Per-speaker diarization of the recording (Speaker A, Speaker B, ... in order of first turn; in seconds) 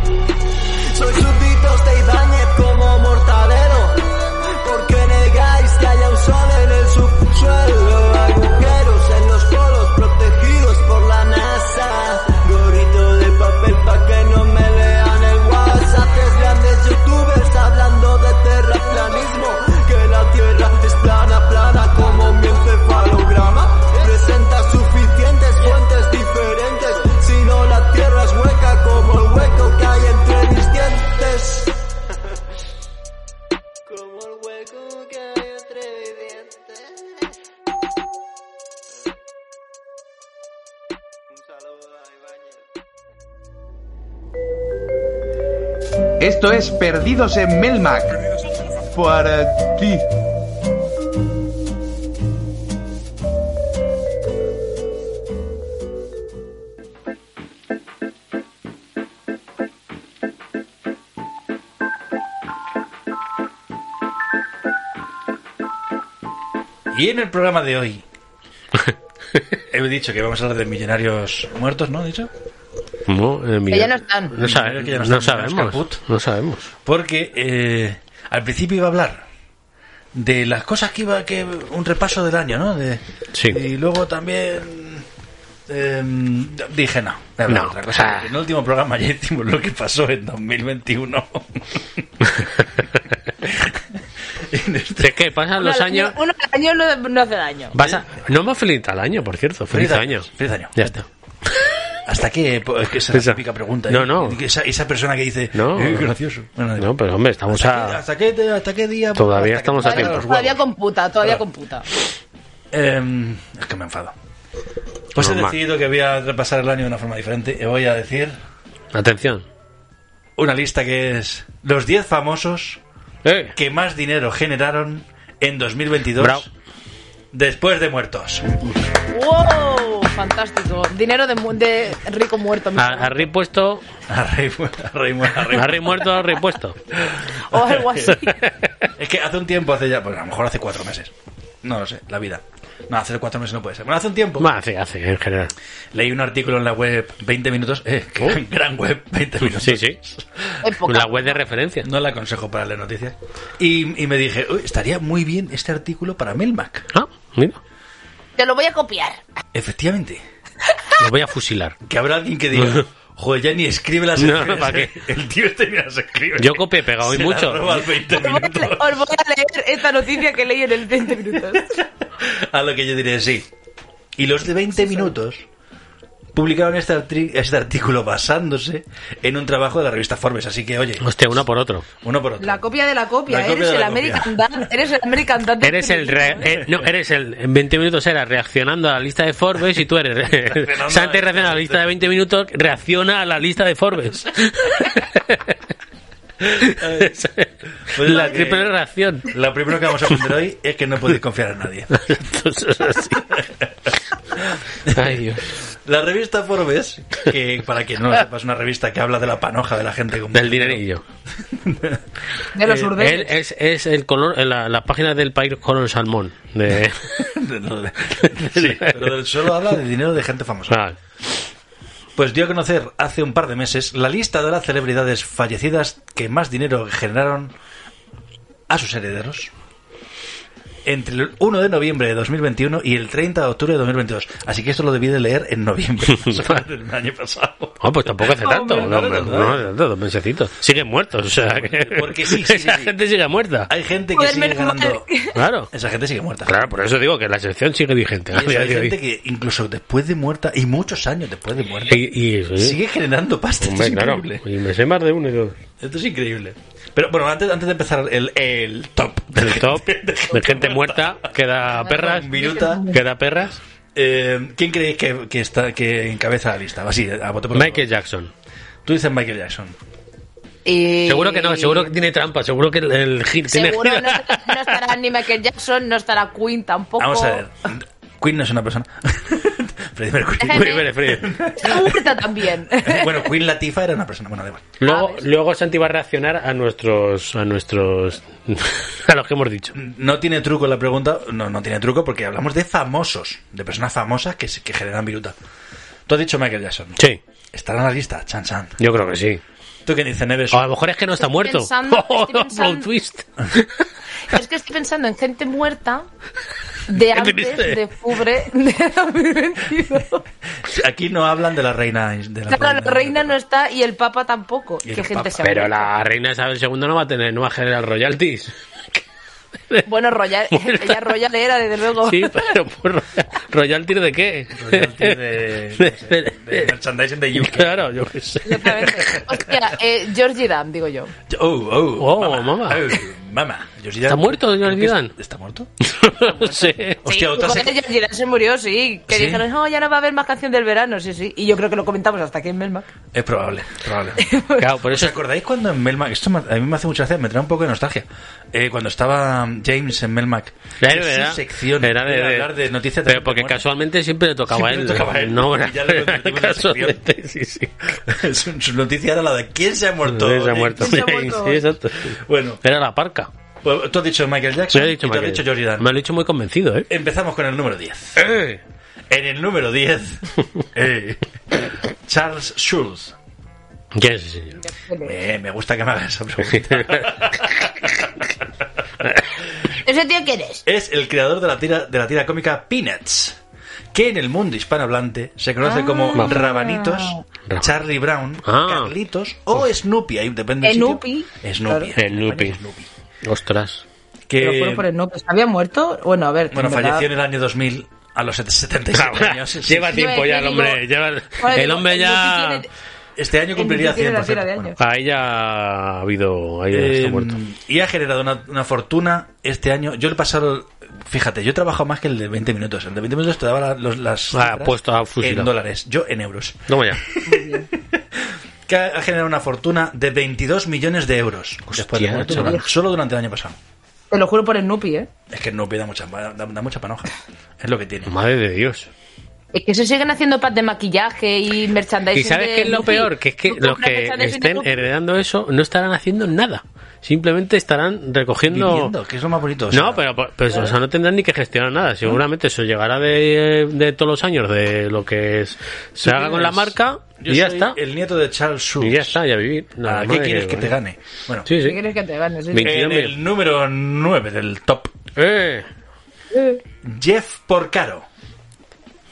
Speaker A: 0.9-31.8, 33.9-36.9, 41.8-42.3
Speaker B: 46.2-48.2, 48.9-50.0
Speaker C: 66.9-68.0, 69.7-72.3, 74.4-76.0, 76.8-79.2, 80.1-85.1, 85.7-92.1, 93.4-93.8, 94.4-95.2, 99.7-101.0, 102.1-106.9, 107.5-110.6, 112.7-114.1, 115.2-118.4, 120.4-122.8, 123.5-126.5, 127.3-128.6, 134.1-136.1, 137.0-137.4, 139.0-141.1, 141.6-144.5, 145.9-150.6, 151.8-156.9, 159.5-160.2, 161.9-169.0, 171.5-173.5, 174.2-175.4, 176.3-181.4, 182.0-182.7, 183.3-184.7, 186.4-186.9, 190.3-191.9, 196.8-197.2, 197.9-198.7, 199.3-202.2, 203.3-203.7, 204.4-210.8, 211.4-212.0, 217.2-220.8, 222.2-227.5, 228.7-229.5, 230.8-239.7, 241.4-242.9, 243.7-245.1, 245.7-246.6, 248.3-252.0, 252.6-254.4, 255.8-262.9, 263.9-267.9, 268.9-269.8, 277.0-282.2, 282.7-284.8, 289.7-295.4, 296.1-297.0, 297.5-298.8, 299.9-300.7, 310.6-313.4, 314.8-315.5, 324.6-327.9, 329.0-329.4, 331.3-335.7, 336.3-337.8, 339.1-339.4, 343.1-344.3, 344.8-353.6, 354.5-357.0, 358.1-362.6, 363.6-365.9, 366.9-368.3, 369.1-373.1, 375.0-378.1, 380.7-383.4, 383.9-392.9, 394.3-394.9, 396.5-400.1, 403.2-404.8, 406.7-423.6, 425.3-428.1, 438.5-440.1, 446.0-449.2, 449.8-451.5, 452.6-454.9, 456.8-458.1
Speaker D: 73.1-76.7, 83.3-83.6, 87.5-88.3, 95.0-96.2, 97.8-101.7, 103.1-104.4, 105.5-106.1, 106.8-108.0, 109.2-110.3, 115.2-115.6, 118.9-119.5, 123.2-123.5, 126.2-126.5, 132.8-133.8, 135.5-136.8, 138.1-138.9, 144.4-145.5, 149.5-150.0, 150.9-151.9, 156.9-157.6, 161.0-161.8, 162.5-162.9, 164.2-164.9, 166.4-167.8, 181.0-181.9, 185.6-195.5, 196.5-199.3, 202.0-203.3, 204.9-205.5, 210.3-211.0, 212.7-217.2, 218.5-219.1, 220.7-221.0, 236.2-236.6, 237.8-243.7, 245.3-245.7, 246.5-249.0, 251.9-252.8, 253.6-255.6, 259.4-262.3, 262.9-263.6, 267.5-268.3, 271.1-274.7, 280.5-281.3, 284.8-289.7, 298.8-299.4, 300.5-303.8, 307.1-307.8, 315.4-318.5, 320.5-321.1, 322.0-325.2, 325.8-326.7, 327.4-329.0, 332.0-332.9, 334.1-335.1, 335.8-337.0, 344.6-345.2, 350.8-352.5, 353.1-358.0, 360.1-363.3, 364.7-366.9, 368.2-368.6, 373.9-374.6, 376.4-377.1, 386.1-386.4, 388.5-388.9, 392.0-392.6, 393.2-393.9, 398.9-402.6, 404.8-407.4, 414.3-415.5, 416.7-417.0, 421.7-422.6, 428.1-428.9, 432.1-438.9, 439.7-447.8, 448.8-450.7, 451.5-451.8, 452.5-453.1, 455.2-455.7
Speaker E: 73.7-74.3, 95.6-97.8, 109.8-111.9, 129.1-133.2, 137.5-138.4, 150.6-151.4, 158.4-159.2, 168.1-171.8, 174.8-175.1, 182.4-186.4, 212.6-213.3, 238.5-238.9, 244.2-245.3, 262.1-263.0, 270.7-271.9, 273.5-277.4, 280.4-280.9, 281.6-283.2, 284.9-285.2, 301.2-302.9, 304.3-306.1, 306.9-310.2, 312.5-315.9, 319.9-322.4, 328.4-331.1, 337.1-342.9, 344.2-344.6, 360.8-361.6, 374.8-375.1, 379.9-380.6, 385.6-387.2, 390.6-391.9, 394.4-397.1, 399.9-400.8, 401.4-402.7, 403.6-404.8, 417.3-417.7, 422.3-422.7, 424.1-425.1, 429.5-434.7, 451.6-452.7, 456.3-456.6